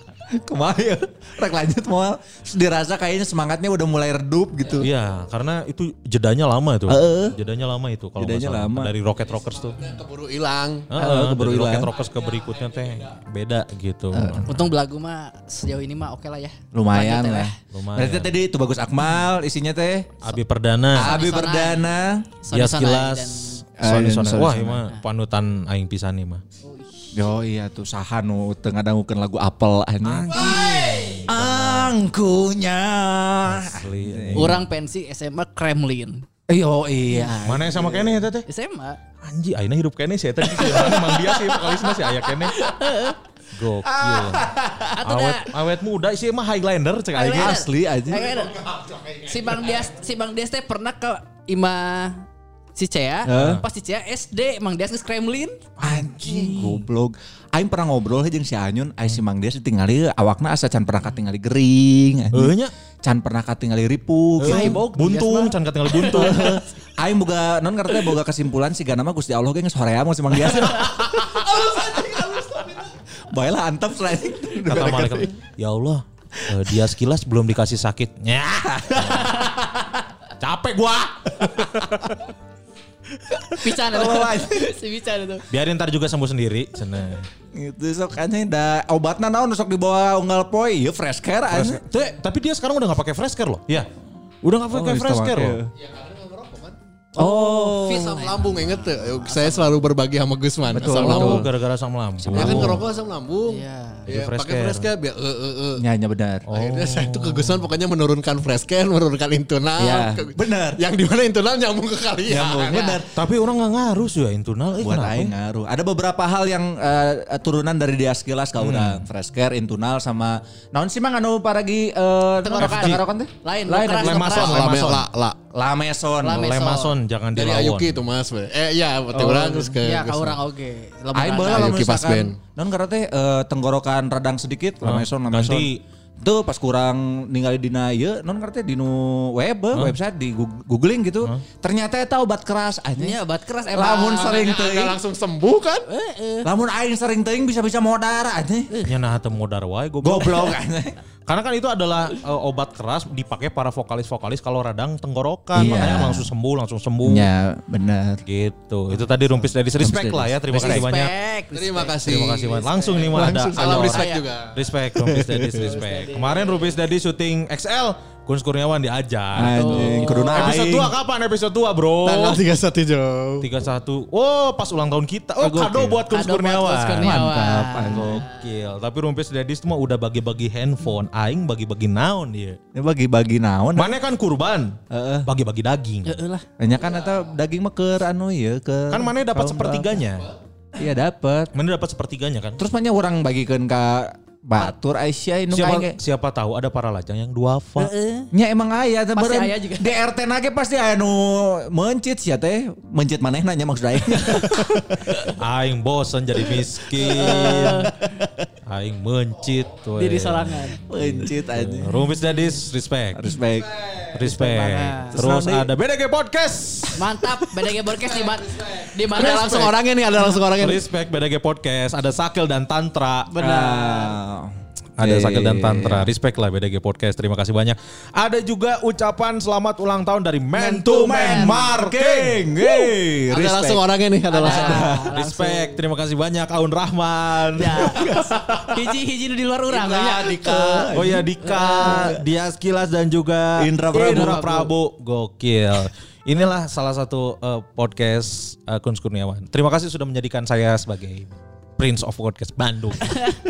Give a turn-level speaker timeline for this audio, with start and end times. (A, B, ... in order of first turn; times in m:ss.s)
0:00.3-0:04.9 A
0:04.8-0:09.9 B
0:06.9-0:07.3 A
0:08.2-0:08.9 A
0:09.2-0:10.9 C
0:10.9-0:14.5 B
0:11.0-0:11.9 A
0:11.8-0:13.2 C
0:14.1-0:14.5 A
0:14.5-0:17.5 D
0:16.7-0:20.1 A
0:17.7-0:18.3 B
0:20.2-0:21.1 B
0:20.9-0:22.2 A
0:21.0-0:21.8 D
0:22.4-0:23.6 D
0:22.5-0:26.4 B
0:23.8-0:24.8 A
0:26.6-0:27.1 D
0:27.1-0:34.6 A
0:30.0-0:31.9 B
0:33.5-0:34.6 B
0:34.4-0:36.2 D
0:36.5-0:38.2 A
0:37.1-0:37.4 D
0:37.4-0:38.4 B
0:38.4-0:39.0 D
0:39.2-0:42.5 B
0:42.6-0:43.2 D
0:43.5-0:44.4 B
0:44.0-0:44.7 A
0:44.8-0:45.5 D
0:45.0-0:47.6 B
0:47.2-0:48.6 D
0:47.3-0:48.4 A
0:49.2-0:52.2 D
0:52.8-0:55.6 D
0:53.3-0:53.6 A
0:55.8-0:56.8 B
0:55.8-1:04.8 A
1:02.3-1:02.7 B
1:04.4-1:06.6 B
1:04.4-1:06.4 D
1:06.1-1:12.4 A
1:13.3-1:15.3 A
1:14.7-1:19.4 B
1:18.8-1:19.9 A
1:20.4-1:22.1 B
1:23.6-1:25.4 D
1:23.8-1:24.6 A
1:25.5-1:27.2 B
1:27.5-1:31.8 A
1:31.5-1:33.9 B
1:34.4-1:35.6 B
1:34.7-1:35.7 A
1:35.8-1:36.8 C
1:37.2-1:38.3 A
1:37.2-1:39.8 D
1:37.8-1:41.5 C
1:40.8-1:41.4 A
1:40.8-1:42.8 B
1:42.3-1:42.8 A
1:42.3-1:45.8 C
1:43.5-1:44.1 D
1:44.1-1:44.9 B
1:45.8-1:46.5 A
1:46.5-1:52.9 C
1:46.5-1:47.6 B
1:49.8-1:50.8 A
1:52.3-1:53.0 A
1:53.0-1:55.3 B
1:54.8-2:03.3 A
1:58.6-1:59.0 B
2:02.4-2:04.8 D
2:02.6-2:03.0 B
2:03.7-2:05.4 C
2:04.0-2:05.0 B
2:05.5-2:06.5 A
2:06.2-2:06.9 D
2:06.3-2:08.0 B
2:07.3-2:10.4 C
2:09.1-2:11.8 D
2:11.1-2:15.7 A
2:11.4-2:12.4 C
2:14.8-2:15.8 B
2:16.2-2:23.2 A
2:23.0-2:24.9 D
2:23.7-2:25.0 A
2:24.3-2:25.8 C
2:25.9-2:26.5 D
2:26.4-2:28.7 A
2:28.9-2:30.6 B
2:30.0-2:30.9 A
2:31.3-2:37.3 B
2:35.6-2:36.3 A
2:35.6-2:36.0 D
2:37.0-2:38.2 A
2:38.3-2:41.1 B
2:39.8-2:40.8 A
2:40.6-2:42.0 D
2:41.5-2:45.8 C
2:42.0-2:52.4 B
2:42.9-2:44.2 D
2:45.6-2:46.6 D
2:49.3-2:50.9 A
2:49.4-2:50.5 D
2:52.0-2:53.5 C
2:53.4-2:57.1 B
2:55.4-2:56.0 A
2:56.1-2:58.3 D
2:57.0-2:58.2 A
2:57.9-3:02.6 B
3:02.7-3:03.9 A
3:03.8-3:06.1 B
3:04.9-3:05.3 A
3:06.0-3:06.4 D
3:06.6-3:10.0 A
3:06.9-3:07.2 C
3:08.9-3:10.2 B
3:10.8-3:11.5 A
3:11.5-3:12.6 B
3:12.6-3:16.0 A
3:15.5-3:17.9 B
3:17.8-3:18.3 D
3:18.3-3:25.0 A
3:19.1-3:19.9 D
3:25.3-3:27.8 B
3:27.2-3:28.5 A
3:27.2-3:27.8 D
3:28.7-3:33.2 B
3:30.0-3:30.8 D
3:30.9-3:31.9 A
3:33.1-3:33.7 A
3:34.1-3:37.0 B
3:34.2-3:35.1 D
3:35.1-3:35.7 A
3:37.0-3:39.7 D
3:38.1-3:40.9 C
3:40.6-3:43.3 B
3:43.3-3:44.1 D
3:43.4-3:46.1 A
3:45.0-3:52.4 B
3:50.6-3:51.6 D
3:50.7-3:53.8 A
3:53.3-3:54.9 C
3:54.3-3:55.7 D
3:54.4-3:54.9 A
3:55.1-3:57.9 B
3:57.6-4:00.8 D
3:59.7-4:01.3 A
4:00.9-4:13.2 B
4:01.4-4:02.0 D
4:01.8-4:02.2 A
4:03.6-4:04.4 A
4:03.9-4:04.7 D